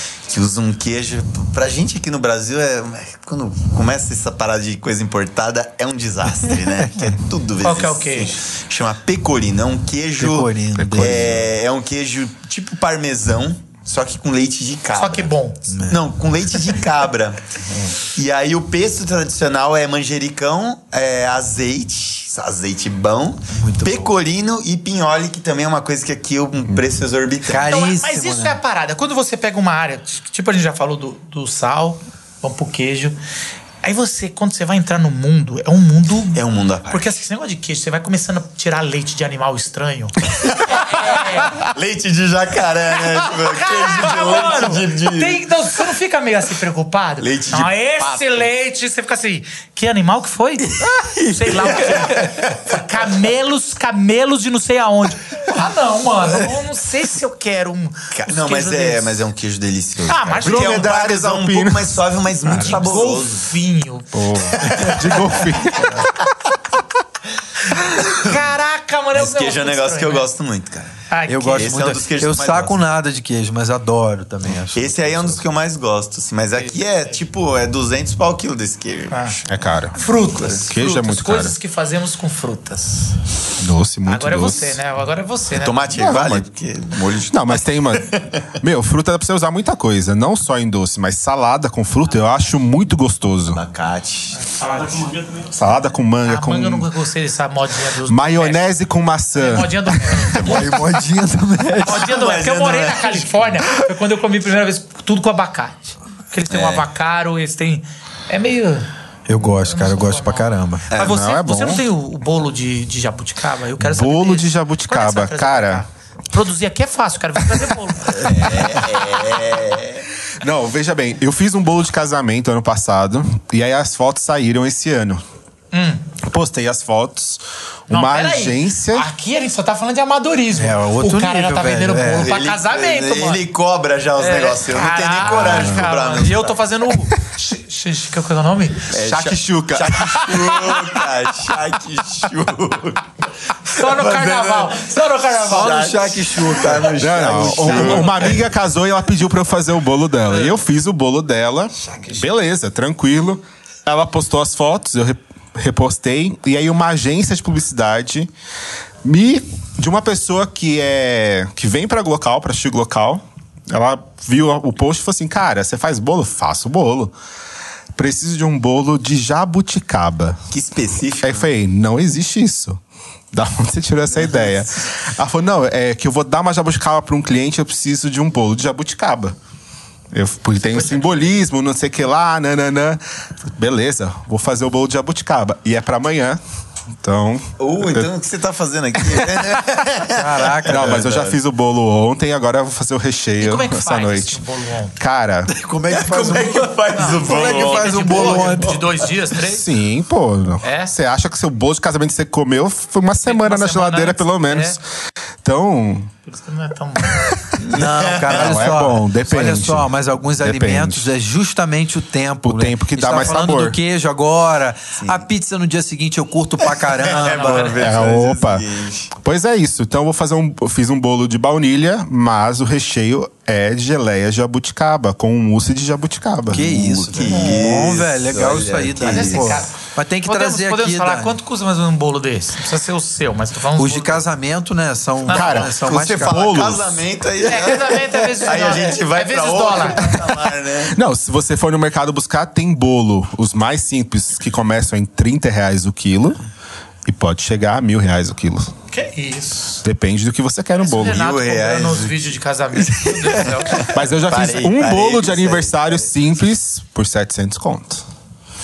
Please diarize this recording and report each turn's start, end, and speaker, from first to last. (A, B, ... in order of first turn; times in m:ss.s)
0:00.3-0:15.3 A
0:07.6-0:08.4 B
0:10.2-0:11.4 C
0:10.8-0:11.2 D
0:14.9-0:15.7 B
0:15.7-0:16.0 C
0:15.8-0:27.7 A
0:23.5-0:24.1 C
0:27.5-0:28.6 C
0:27.6-0:33.2 B
0:33.8-0:41.6 B
0:36.3-0:37.1 A
0:40.4-0:45.4 A
0:43.2-0:59.1 B
0:47.2-0:48.5 A
0:51.0-0:52.6 A
0:58.1-1:03.4 A
1:00.1-1:00.9 B
1:00.4-1:02.0 D
1:02.5-1:04.1 B
1:04.1-1:06.1 D
1:04.6-1:06.0 A
1:07.7-1:10.3 B
1:07.9-1:08.4 A
1:09.1-1:11.0 A
1:11.1-1:11.8 B
1:11.3-1:15.4 C
1:11.5-1:12.8 A
1:14.7-1:19.7 A
1:16.6-1:17.2 B
1:19.1-1:19.4 B
1:19.5-1:20.0 D
1:19.9-1:23.2 B
1:20.6-1:21.5 D
1:23.6-1:24.8 D
1:24.0-1:25.9 B
1:25.6-1:28.4 A
1:25.9-1:26.4 D
1:27.3-1:33.6 D
1:33.5-1:34.5 A
1:34.5-1:35.1 B
1:35.5-1:36.9 D
1:36.2-1:38.6 B
1:38.1-1:40.5 D
1:39.3-1:40.8 B
1:40.3-1:40.6 A
1:40.4-1:42.1 C
1:41.8-1:48.9 B
1:41.9-1:43.5 A
1:46.5-1:46.8 A
1:49.3-1:50.9 C
1:49.4-1:58.8 B
1:50.9-1:51.2 A
1:51.0-1:51.8 D
1:53.8-1:55.8 D
1:58.1-2:00.0 A
2:00.4-2:05.2 D
2:05.7-2:06.0 B
2:06.2-2:09.1 D
2:07.9-2:13.4 B
2:10.5-2:12.3 C
2:12.2-2:16.6 A
2:14.2-2:18.9 B
2:15.2-2:15.9 D
2:18.9-2:23.1 A
2:19.0-2:20.9 D
2:23.6-2:26.0 B
2:23.7-2:28.5 A
2:25.5-2:28.2 C
2:27.0-2:38.3 D
2:39.0-2:47.1 D
2:47.9-2:50.4 D
2:50.5-2:51.5 A
2:51.2-2:52.8 D
2:53.3-2:59.3 D
2:54.1-2:54.7 A
3:00.1-3:06.4 D
3:07.0-3:08.1 D
3:07.6-3:11.4 A
3:10.1-3:11.1 C
3:10.6-3:14.4 D
3:13.4-3:15.0 B
3:15.0-3:15.5 D
3:15.5-3:18.8 C
3:15.8-3:18.8 A
3:16.9-3:19.7 B
3:19.4-3:24.8 D
3:20.6-3:20.9 B
3:23.2-3:24.8 B
3:25.4-3:26.1 D
3:26.2-3:27.3 B
3:27.6-3:28.7 A
3:27.7-3:37.8 C
3:28.3-3:31.1 D
3:32.4-3:33.8 D
3:35.0-3:35.2 A
3:36.7-3:39.1 A
3:37.1-3:37.8 B
3:37.8-3:38.6 D
3:39.2-3:46.7 D
3:46.5-3:49.7 A
3:46.5-3:51.4 C
3:47.3-3:47.7 B
3:49.0-3:54.2 B
3:53.8-3:56.5 C
3:55.2-3:55.6 B
3:55.3-3:57.0 D
3:55.7-4:01.0 A
3:57.4-4:00.2 B
4:00.9-4:06.4 D
4:07.0-4:08.7 D
4:08.9-4:09.8 B
4:09.8-4:11.2 D
4:10.7-4:13.9 B
4:11.0-4:16.1 A
4:13.9-4:18.0 D